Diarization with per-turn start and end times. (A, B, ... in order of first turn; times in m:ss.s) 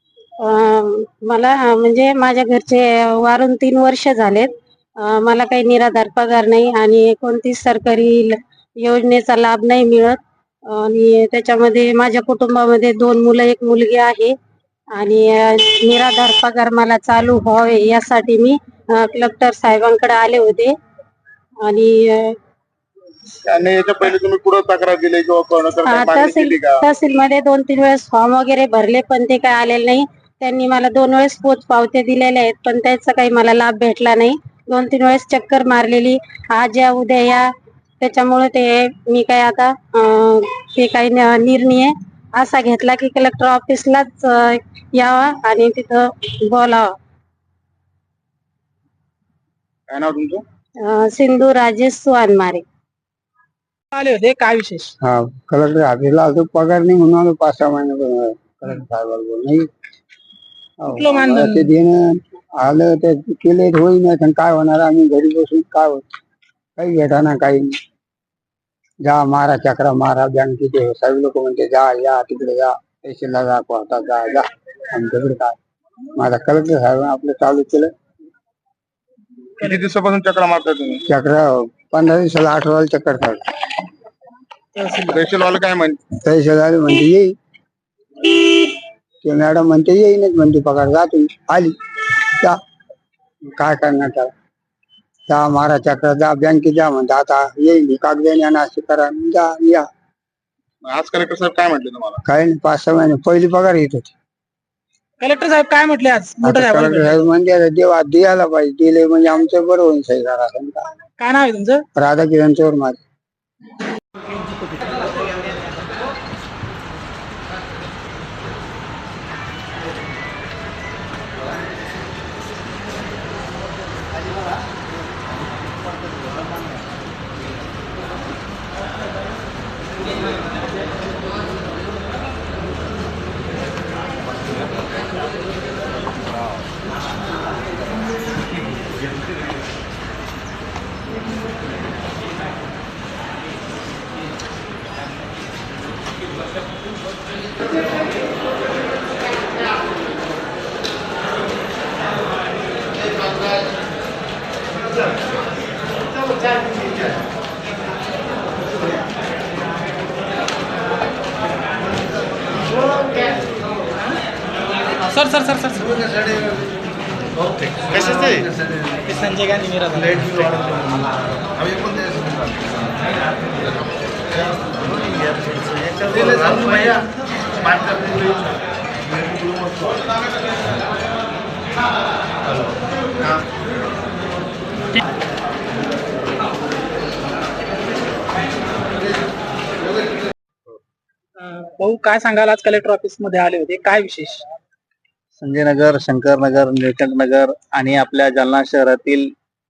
0:00.4-0:04.5 A
0:05.0-0:10.2 A
0:10.7-0:14.3 A
0:15.0-0:20.7 A
0:21.6-0:22.4 A
0:23.5-0:26.8 B
0:25.8-0:37.5 A
0:38.0-0:46.9 A
0:49.9-0:50.4 B
0:50.8-0:52.6 A
0:53.9-0:54.9 C
0:55.0-0:59.6 D
1:00.8-1:02.0 D
1:00.9-1:01.7 C
1:02.6-1:06.0 D
1:06.8-1:07.7 D
1:09.0-1:15.6 D
1:16.2-1:17.9 D
1:19.6-1:21.0 B
1:21.1-1:23.4 D
1:24.8-1:25.2 C
1:25.1-1:26.0 B
1:26.2-1:27.3 D
1:29.2-1:31.7 D
1:33.6-1:34.3 D
1:35.3-1:39.8 D
1:40.8-1:42.2 B
1:42.2-1:44.1 D
1:45.2-1:47.2 C
1:46.4-1:50.8 D
1:51.2-1:51.8 C
1:52.0-1:53.0 D
2:45.1-2:46.0 C
2:48.0-2:48.4 C
2:49.0-2:50.7 C
3:11.4-3:14.4 C
3:15.4-3:19.3 E